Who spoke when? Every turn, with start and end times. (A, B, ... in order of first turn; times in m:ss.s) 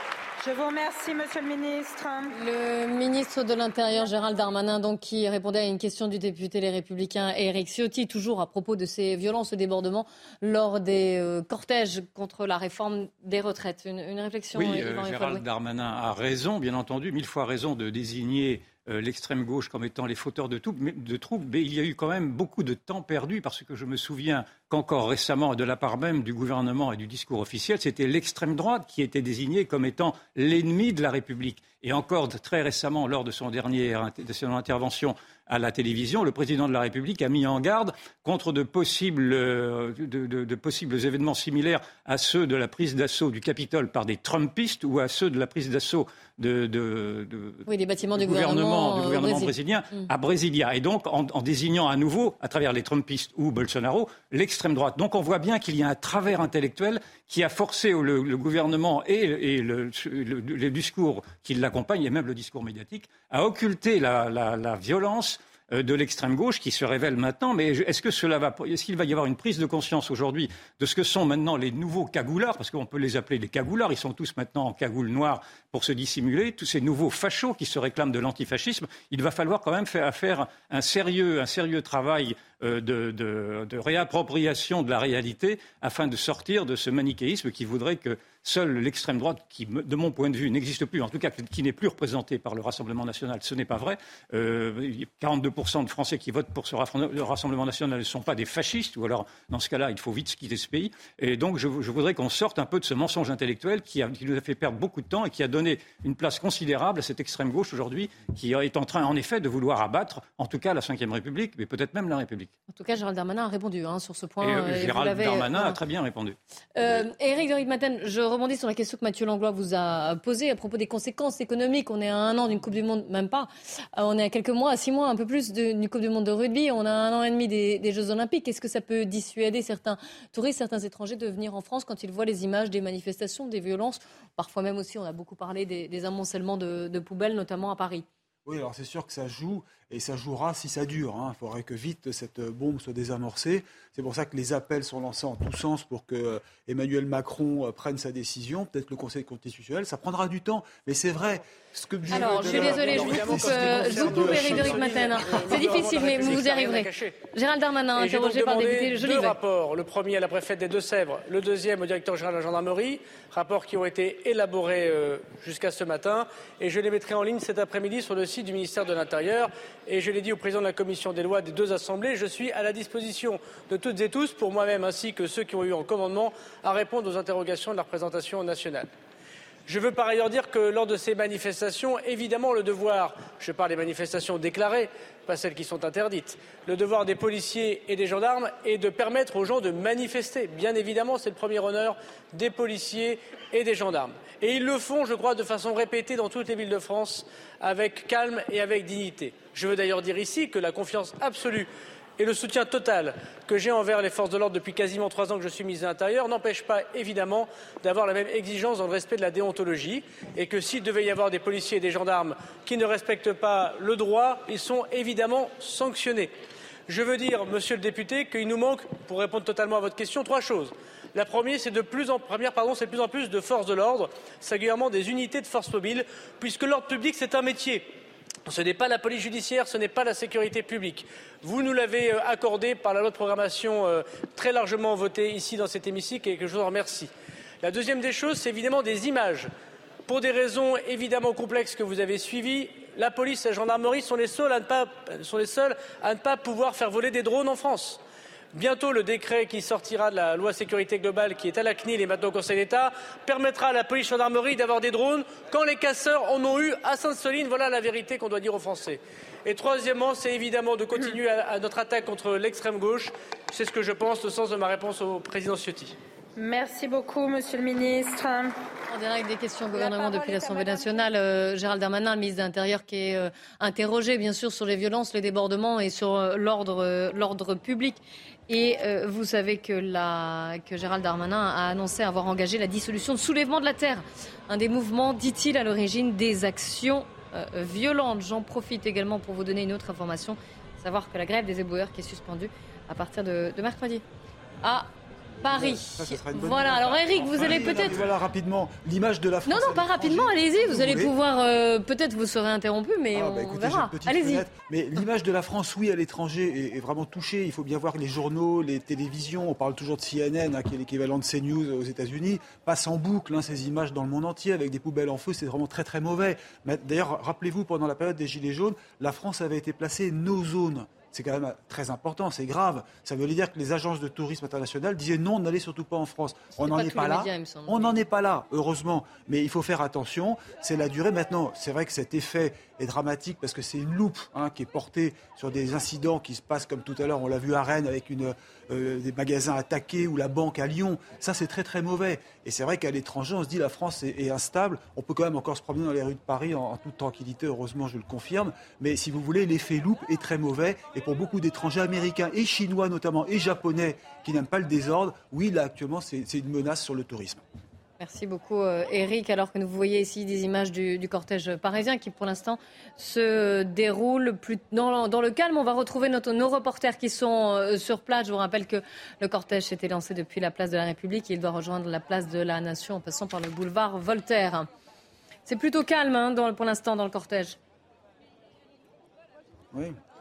0:00.4-0:02.3 A
0:02.3-0:15.4 B
0:14.5-1:52.5 C
0:47.7-0:50.1 B
1:52.7-1:55.8 B
1:54.4-1:56.4 C
1:56.8-2:18.0 B
2:18.4-2:35.4 D
2:32.1-2:39.4 B
2:32.1-2:37.2 E
2:37.9-2:58.9 E
2:59.7-3:36.3 E
3:36.9-3:47.8 E
3:48.4-3:57.1 E
3:57.6-3:59.5 E
4:00.1-4:08.0 E
4:08.5-4:26.0 E
4:26.4-4:28.5 A
4:28.9-4:54.0 B
4:29.7-4:31.0 A
4:54.6-4:54.9 B
4:55.4-5:01.1 D
4:55.4-4:58.1 B
4:59.4-5:04.4 B
5:03.1-5:57.4 D
5:26.5-5:28.0 B
5:58.0-6:14.7 B
6:15.4-6:17.6 B